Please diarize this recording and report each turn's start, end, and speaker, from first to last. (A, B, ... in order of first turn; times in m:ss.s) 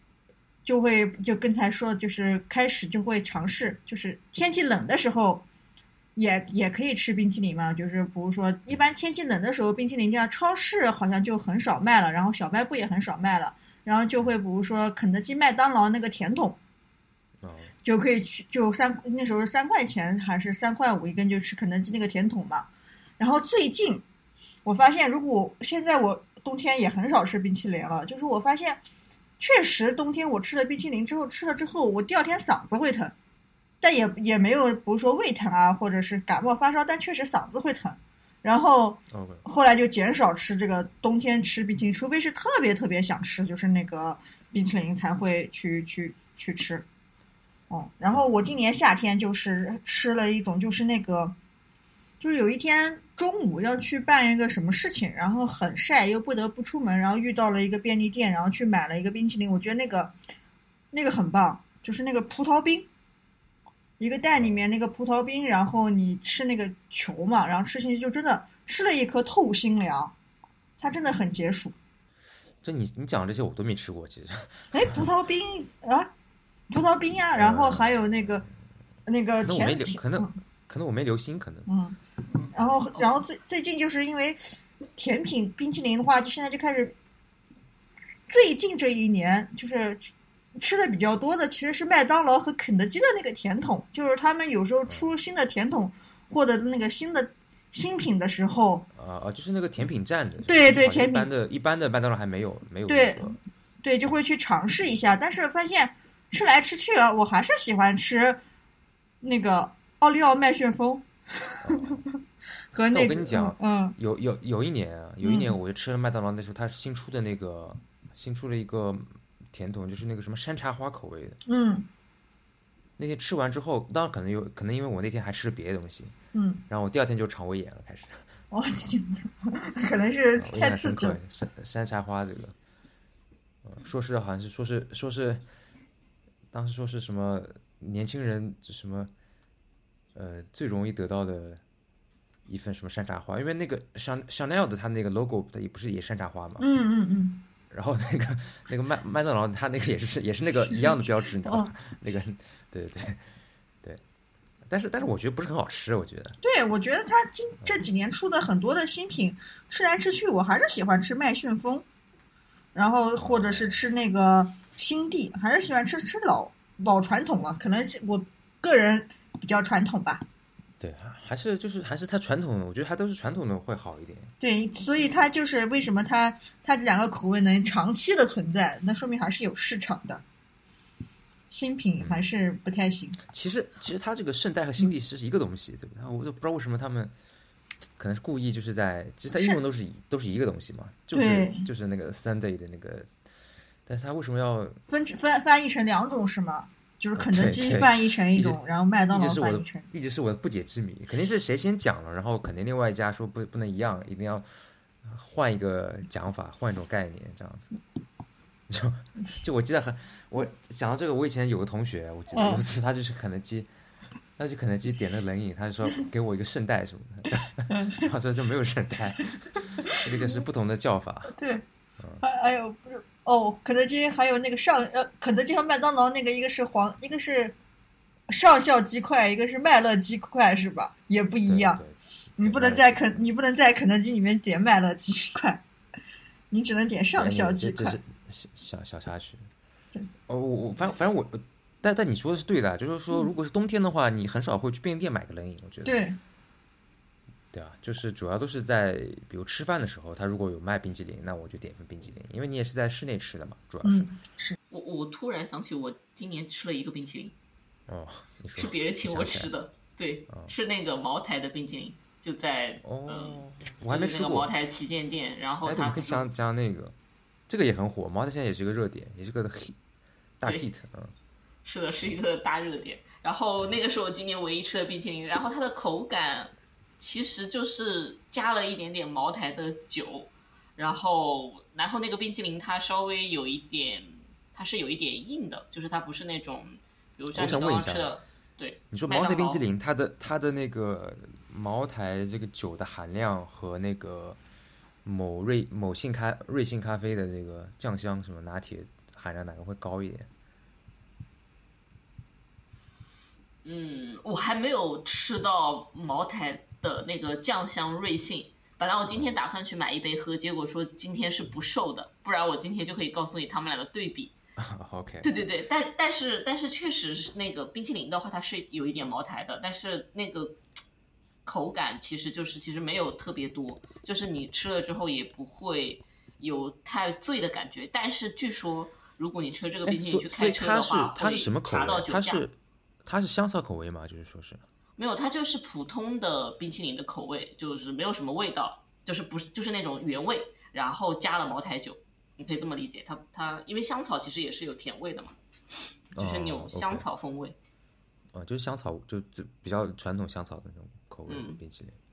0:00.6-0:05.4 A
0:06.2-0:16.6 A
0:17.4-0:17.7 B
0:17.8-0:24.0 A
0:24.6-0:28.8 A
0:29.4-0:33.2 A
0:33.8-0:46.9 A
0:39.1-0:39.4 B
0:47.7-0:51.4 A
0:52.2-1:00.1 A
1:00.9-1:02.9 A
1:04.0-1:10.1 A
1:10.8-1:11.8 A
1:12.6-1:15.0 B
1:14.7-1:16.1 A
1:16.7-1:18.4 A
1:17.4-1:18.4 B
1:19.1-1:20.4 A
1:19.4-1:21.7 B
1:21.7-1:22.0 A
1:22.3-1:23.1 C
1:22.5-1:27.0 A
1:28.3-1:38.9 A
1:38.9-1:43.4 B
1:40.4-1:41.3 A
1:42.9-1:48.4 A
1:49.2-1:52.2 A
1:51.6-1:52.0 B
1:52.7-1:54.0 A
1:52.9-2:01.4 B
1:55.2-1:55.6 A
2:01.5-2:01.9 A
2:03.0-2:06.2 B
2:06.3-2:06.6 A
2:06.7-2:08.3 B
2:08.5-2:11.2 A
2:10.4-2:12.6 B
2:13.6-2:15.4 B
2:16.5-2:19.1 B
2:20.2-2:21.6 B
2:22.5-2:26.7 B
2:26.6-2:27.4 A
2:27.7-2:33.3 B
2:30.7-2:31.7 A
2:34.7-2:36.4 B
2:36.4-2:41.8 A
2:42.8-2:50.2 A
2:43.2-2:43.8 B
2:50.8-2:54.3 B
2:54.4-3:00.2 A
3:01.5-3:03.2 A
3:02.0-3:02.2 B
3:03.3-3:07.1 B
3:08.0-3:13.1 B
3:09.3-3:09.6 A
3:11.1-3:11.7 A
3:13.9-3:14.8 B
3:14.9-3:19.9 A
3:17.2-3:18.6 B
3:19.1-3:24.5 B
3:25.0-3:27.7 B
3:28.7-3:33.7 B
3:32.3-3:32.6 A
3:34.4-3:41.4 B
3:37.7-3:38.0 A
3:39.9-3:40.4 A
3:41.3-3:41.6 A
3:42.2-3:47.6 A
3:48.3-3:51.8 A
3:51.5-3:53.3 B
3:52.4-3:55.6 A
3:56.5-3:58.0 A
3:57.2-3:59.5 B
4:00.3-4:06.0 B
4:05.8-4:06.2 A
4:07.5-4:14.1 B
4:13.8-4:14.6 A
4:14.7-4:17.4 C
4:17.9-4:19.5 B
4:18.6-4:26.3 C
4:22.8-4:24.5 B
4:25.6-4:27.0 B
4:27.5-4:29.8 B
4:30.4-4:31.1 B
4:31.6-4:49.6 C
4:47.3-4:48.1 B
4:48.9-4:54.4 B
4:55.0-5:00.3 B
5:03.6-5:14.4 C
5:14.6-5:15.3 B
5:15.2-5:20.6 C
5:21.5-5:32.4 C
5:29.9-5:34.6 B
5:35.0-5:47.6 C
5:46.2-5:47.1 B
5:48.3-5:52.0 B
5:51.3-5:51.6 C